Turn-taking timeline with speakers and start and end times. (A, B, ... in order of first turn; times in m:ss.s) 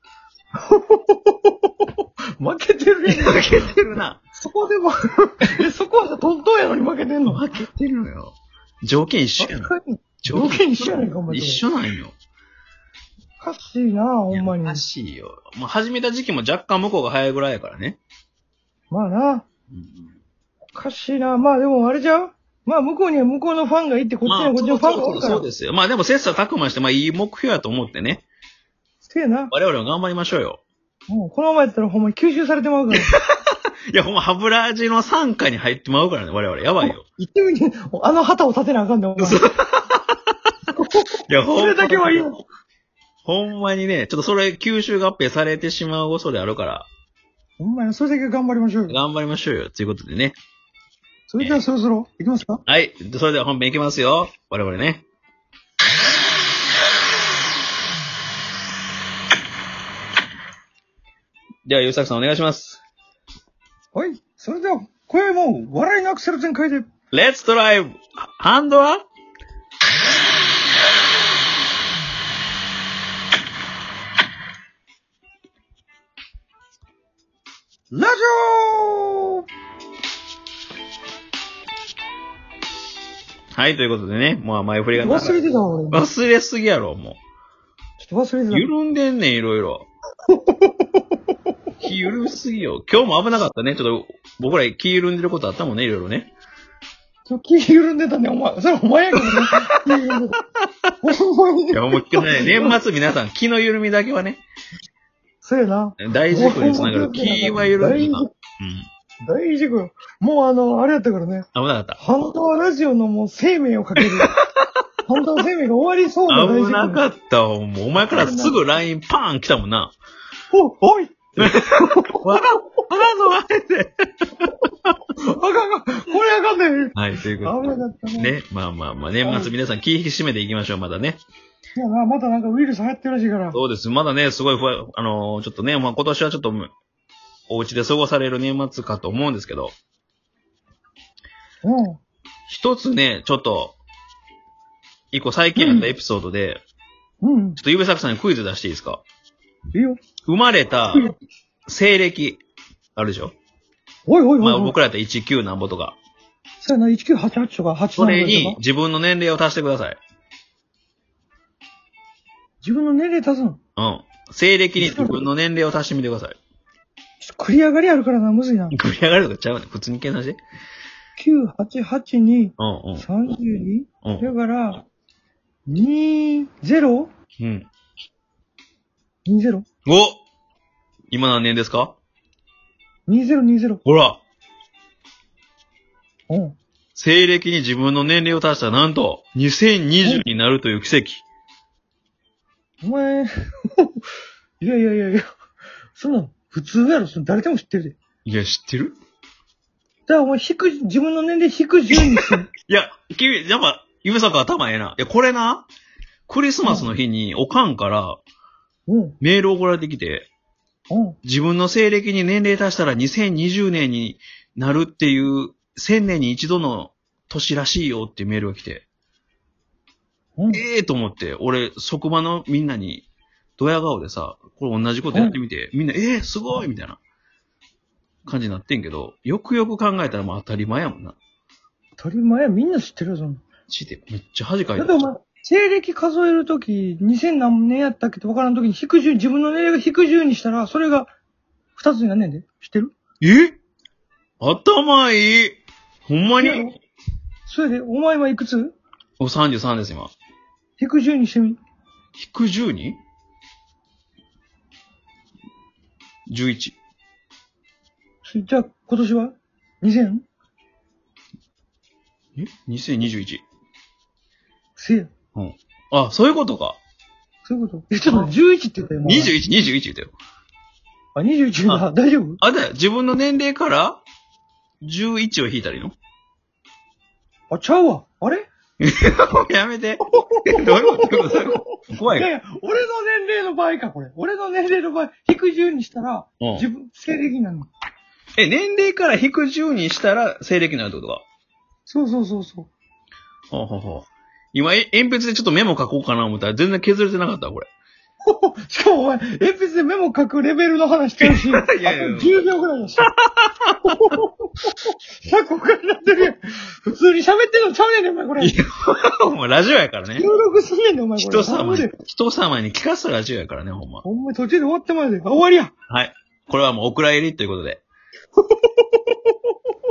0:00.6-0:01.7 A
0:02.4-0:03.7 A
0:03.1-0:04.2 B
0:04.4-0:07.4 A
0:07.3-0:12.1 B
0:09.4-0:11.6 A
0:13.4-0:14.8 A
0:14.3-0:18.0 B
0:18.9-0:19.4 A
0:19.7-0:20.2 B
0:20.7-0:25.4 A
0:24.2-0:28.2 B
0:29.0-0:29.5 A
0:29.5-0:30.6 B
0:31.1-0:33.1 A
0:32.9-0:37.0 B
0:36.8-0:39.4 A
0:39.2-0:40.1 B
0:40.8-0:42.4 A
0:41.3-0:42.3 B
0:43.2-0:46.9 B
0:47.6-0:49.0 A
0:48.9-0:50.4 B
0:51.3-0:52.6 A
0:52.7-0:55.0 B
1:01.6-1:02.8 B
1:03.9-1:06.8 A
1:07.1-1:09.0 B
1:17.9-1:19.4 A
1:23.5-1:25.4 B
1:25.0-1:26.1 A
1:25.9-1:27.2 B
1:28.0-1:28.7 A
1:28.5-1:29.9 B
1:30.3-1:31.0 A
1:31.8-1:36.3 B
1:37.3-1:40.4 A
1:39.2-1:39.5 B
1:41.0-1:42.8 A
1:41.7-1:44.4 B
1:45.4-1:48.3 A
1:46.0-1:48.8 B
1:49.2-1:51.5 A
1:51.5-1:52.0 B
1:52.0-1:54.3 A
1:54.0-1:54.6 B
1:55.1-1:57.0 A
1:56.3-1:59.9 B
1:58.0-1:58.6 A
2:00.5-2:02.3 A
2:01.4-2:03.9 B
2:05.2-2:08.4 A
2:06.9-2:07.5 B
2:08.2-2:11.2 B
2:09.2-2:09.5 A
2:11.8-2:13.6 A
2:13.5-2:16.7 B
2:17.5-2:19.7 B
2:21.6-2:22.0 A
2:22.5-2:23.8 B
2:25.1-2:26.6 B
2:25.6-2:25.9 A
2:27.2-2:27.6 A
2:27.6-2:29.0 B
2:29.7-2:30.0 A
2:30.2-2:31.1 B
2:31.7-2:32.4 B
2:33.0-2:33.4 B
2:34.0-2:34.8 A
2:34.4-2:36.0 B
2:36.6-2:38.6 A
2:38.0-2:40.0 B
2:42.6-2:43.6 A
2:43.8-2:46.4 B
2:44.8-2:45.3 A
2:47.2-2:48.8 A
2:48.7-2:50.4 B
2:51.2-2:54.8 A
2:52.6-2:53.0 B
2:55.7-2:57.1 A
2:57.4-2:57.7 B
2:59.2-2:59.6 A
2:59.9-3:00.2 B
3:01.1-3:02.0 B
3:03.1-3:03.8 A
3:03.8-3:04.2 B
3:06.3-3:06.6 A
3:07.0-3:11.2 B
3:12.8-3:14.0 A
3:14.6-3:15.2 A
3:15.9-3:18.0 A
3:18.2-3:19.0 B
3:20.1-3:22.5 A
3:22.3-3:25.7 B
3:26.3-3:28.2 B
3:26.6-3:26.9 A
3:28.9-3:29.2 A
3:29.2-3:30.3 B
3:30.9-3:31.2 A
3:31.2-3:38.9 B
3:40.4-3:40.6 A
3:40.5-3:43.0 B
3:43.6-3:47.0 B
3:45.1-3:45.4 A
3:48.2-3:51.2 B
3:52.0-3:53.4 A
3:53.7-3:54.9 B
3:54.8-4:01.1 A
4:01.8-4:02.9 A
4:03.2-4:03.6 B
4:04.4-4:06.7 B
4:06.3-4:06.7 A
4:07.4-4:08.8 A
4:09.2-4:10.1 B
4:10.8-4:11.6 A
4:12.1-4:13.0 B
4:16.3-4:16.8 B
4:18.2-4:20.2 A
4:22.4-4:23.4 B
4:24.8-4:25.1 A
4:25.4-4:26.8 B
4:27.4-4:29.4 A
4:29.0-4:30.1 B
4:31.1-4:32.4 A
4:32.4-4:34.0 B
4:34.8-4:36.0 B
4:37.5-4:38.5 A
4:38.8-4:42.3 B
4:40.1-4:47.7 A
4:46.4-4:46.7 B
4:48.4-4:51.2 B
4:51.9-4:52.7 A
4:53.5-4:57.7 B
4:58.2-5:03.1 A
5:01.2-5:02.3 B
5:03.0-5:04.0 B
5:03.9-5:04.3 A
5:05.2-5:08.6 A
5:08.4-5:10.2 B
5:10.1-5:11.9 A
5:11.2-5:14.0 B
5:14.0-5:15.7 A
5:15.9-5:17.8 B
5:18.4-5:19.2 A